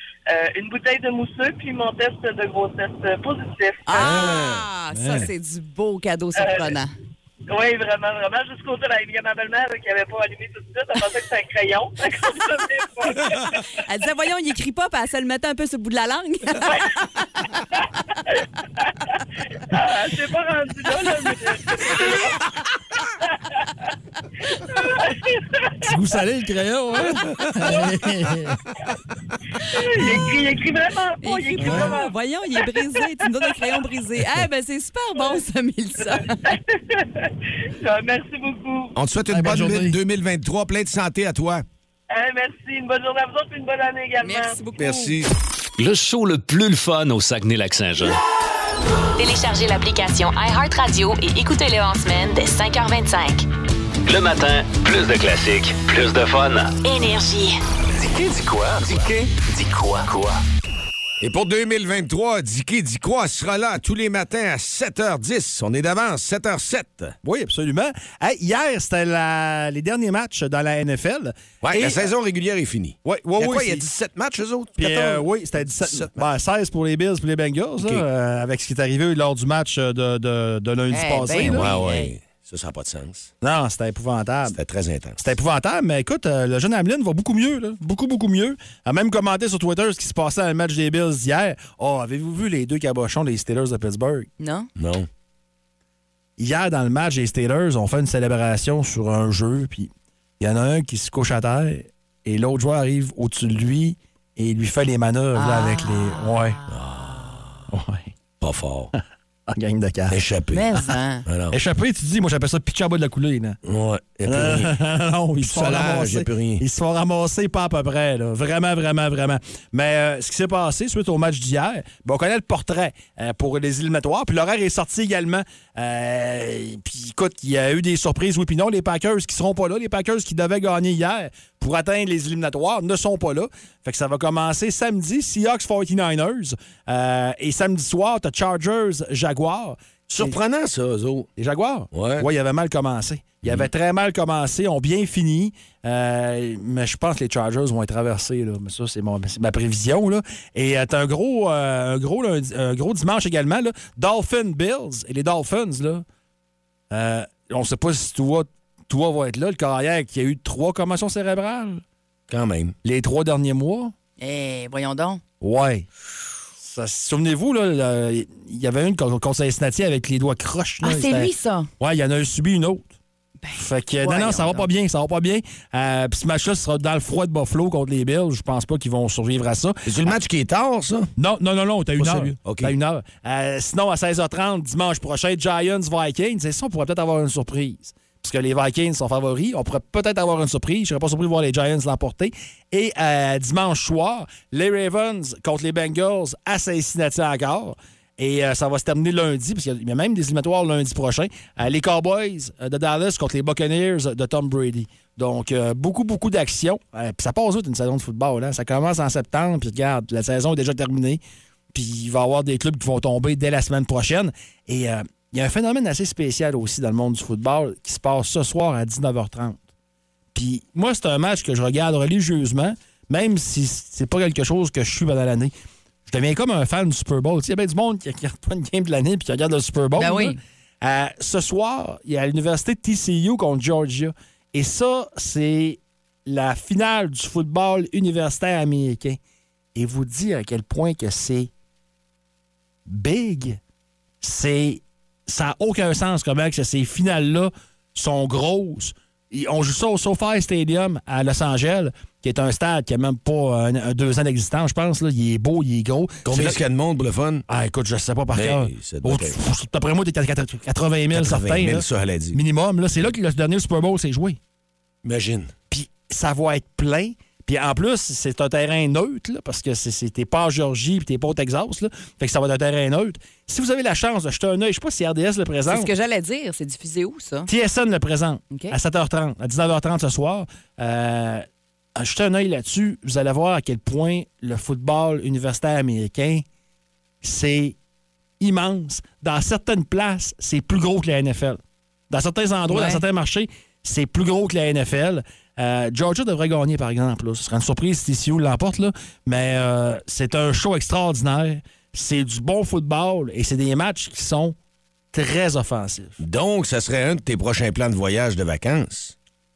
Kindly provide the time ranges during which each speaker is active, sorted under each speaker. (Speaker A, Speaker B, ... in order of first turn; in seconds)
Speaker A: 0.3-4.4, 6.4-6.7, 7.5-13.7, 19.7-22.4, 23.3-23.7, 24.6-25.9, 29.7-33.6, 36.0-39.0, 42.1-44.6
Speaker B: 3.9-6.9, 13.8-17.6, 31.2-36.4, 44.2-45.1, 80.9-82.1, 94.4-94.7, 105.3-106.7, 110.5-111.2, 164.2-165.2, 170.8-171.7, 173.4-174.7, 230.0-230.4, 275.7-277.5, 292.7-293.0
Speaker C: 4.0-5.3, 25.8-28.6, 31.6-31.9, 39.3-40.0, 67.2-72.1, 73.0-73.8, 74.8-81.7, 83.4-84.5, 85.2-94.3, 96.4-106.6, 107.7-108.1, 108.9-110.2, 111.5-113.6, 114.2-140.4, 141.4-156.0, 156.9-161.8, 162.8-163.9, 165.4-165.9, 166.6-172.9, 173.5-180.1, 181.2-211.2, 211.7-219.6, 220.3-225.5, 226.1-239.2, 239.7-241.5, 242.8-243.6, 244.2-256.6, 257.5-264.4, 265.7-275.9, 277.5-286.4, 287.2-287.8, 288.4-304.6, 305.1-306.2
Speaker D: 39.0-41.6, 44.8-45.3, 61.2-67.2, 71.6-76.2, 81.4-83.3, 84.5-85.2, 94.8-95.1, 106.7-107.6, 108.4-108.9, 110.1-111.5, 113.6-114.7, 115.4-116.6, 140.1-141.3, 141.9-142.2, 162.3-162.7, 179.8-181.1, 182.0-182.7, 256.2-257.4, 258.3-259.4, 261.1-262.4, 265.0-265.5, 306.2-309.1
Speaker E: 45.8-48.2, 54.0-56.8, 58.0-60.4
Speaker F: 49.2-53.5, 56.8-57.6